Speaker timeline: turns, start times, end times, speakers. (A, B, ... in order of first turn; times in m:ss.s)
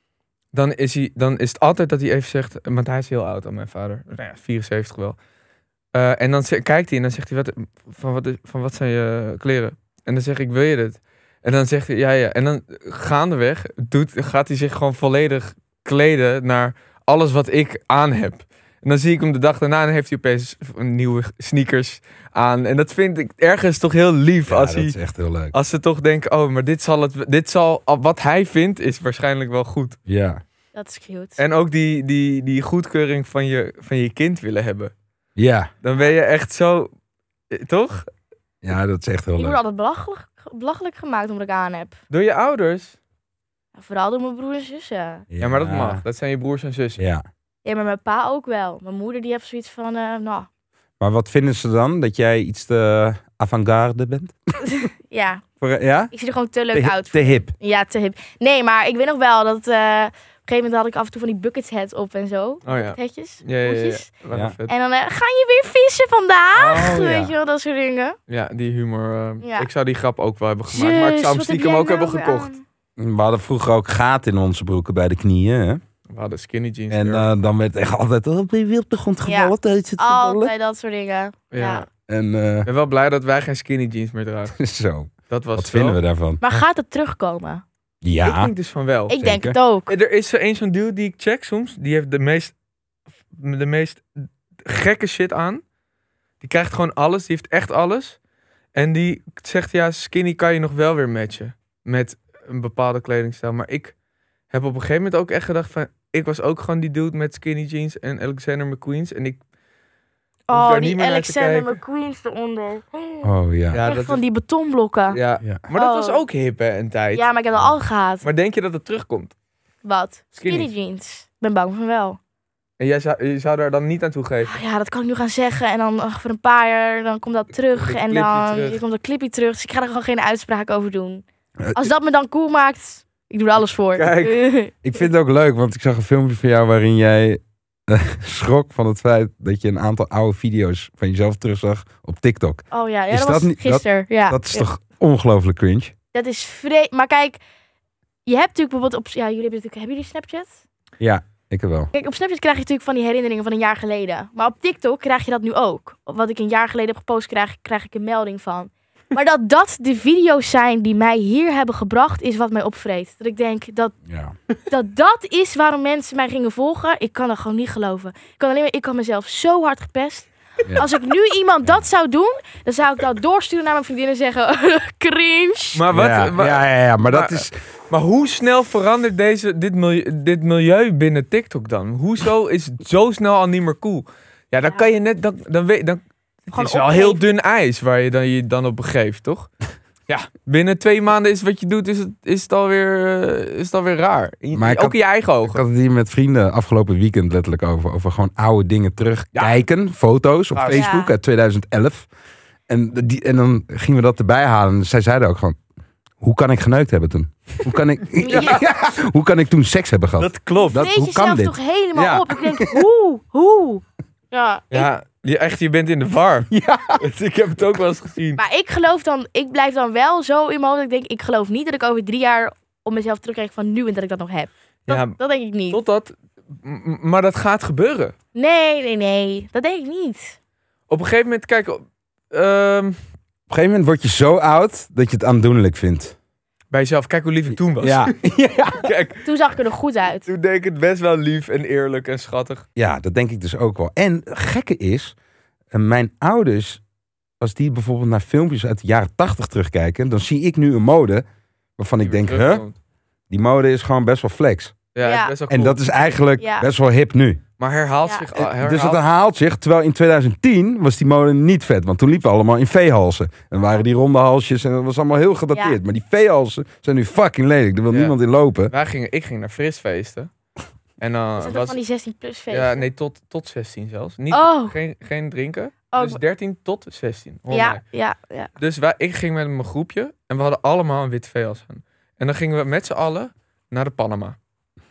0:00.5-0:05.2 A
0:05.9-0:25.0 A
0:24.5-0:25.5 B
0:25.5-0:30.0 A
0:30.1-0:30.4 B
0:30.8-0:31.4 C
0:31.4-0:34.9 A
0:35.4-0:35.7 B
0:35.8-0:36.9 A
0:37.5-0:38.1 A
0:38.6-0:39.6 B
0:39.4-0:42.0 C
0:42.1-0:43.0 A
0:43.8-0:45.3 C
0:45.3-0:46.0 B
0:45.4-0:47.0 A
0:47.0-0:47.2 B
0:47.6-0:50.5 C
0:51.0-0:54.4 B
0:54.7-0:55.4 C
0:55.6-0:56.1 B
0:56.1-1:04.1 C
0:56.7-0:57.5 B
1:02.6-1:04.7 A
1:04.7-1:08.2 C
1:06.6-1:07.3 A
1:08.3-1:12.5 A
1:09.4-1:09.7 C
1:10.7-1:12.6 C
1:13.0-1:15.8 B
1:16.1-1:17.3 A
1:16.9-1:20.5 B
1:19.2-1:21.8 C
1:21.5-1:21.8 A
1:22.1-1:22.7 B
1:22.7-1:24.6 A
1:24.5-1:26.4 B
1:25.3-1:26.0 A
1:26.4-1:27.6 C
1:28.0-1:28.5 B
1:28.2-1:29.1 A
1:29.1-1:29.9 C
1:29.2-1:29.6 B
1:29.9-1:32.5 A
1:33.3-1:34.0 A
1:34.6-1:35.6 A
1:36.4-1:38.2 A
1:38.8-1:43.9 A
1:44.5-1:49.4 A
1:50.5-1:53.3 C
1:50.5-1:51.8 A
1:53.2-1:53.8 B
1:53.7-1:54.2 A
1:53.8-1:55.2 C
1:55.1-1:57.2 A
1:55.7-1:56.2 C
1:57.1-1:58.3 C
1:58.2-1:59.3 A
1:59.8-2:02.2 C
2:00.4-2:00.7 A
2:02.8-2:04.5 A
2:04.5-2:11.2 C
2:07.8-2:08.8 A
2:11.6-2:11.9 B
2:11.8-2:14.7 C
2:14.0-2:14.4 A
2:14.8-2:25.9 B
2:22.7-2:24.7 C
2:26.1-2:27.4 C
2:28.3-2:30.5 C
2:31.0-2:31.9 B
2:31.9-2:44.0 C
2:44.1-2:44.4 B
2:44.7-2:55.8 C
2:55.7-3:09.5 A
2:55.9-2:57.6 B
3:06.5-3:07.2 C
3:10.1-3:15.6 A
3:14.5-3:22.1 B
3:20.5-3:20.9 A
3:20.7-3:21.1 C
3:22.7-3:25.6 B
3:26.2-3:32.8 B
3:28.2-3:28.6 C
3:28.2-3:28.7 A
3:30.2-3:30.9 A
3:30.7-3:34.9 C
3:34.7-3:38.4 A
3:36.5-3:37.0 B
3:38.4-3:45.8 C
3:44.9-3:45.2 A
3:45.7-3:48.2 A
3:48.3-3:50.4 C
3:50.9-3:53.0 A
3:53.5-3:56.2 B
3:56.7-3:58.2 A
3:57.8-3:58.9 B
3:58.8-3:59.2 A
3:59.2-4:00.3 C
4:00.3-4:02.7 A
4:02.8-4:05.2 B
4:05.7-4:06.8 B
4:07.4-4:11.3 B
4:11.8-4:12.6 B
4:12.0-4:12.7 A
4:13.3-4:14.8 B
4:14.9-4:15.8 A
4:15.0-4:15.3 C
4:15.5-4:17.4 B
4:16.4-4:16.7 C
4:17.6-4:19.0 A
4:18.4-4:28.7 B
4:25.5-4:25.8 C
4:28.7-4:30.3 A
4:31.0-4:31.8 A
4:31.4-4:32.8 C
4:32.5-4:37.8 A
4:34.3-4:34.8 C
4:35.9-4:36.2 C
4:37.5-4:38.5 C
4:38.6-4:44.4 A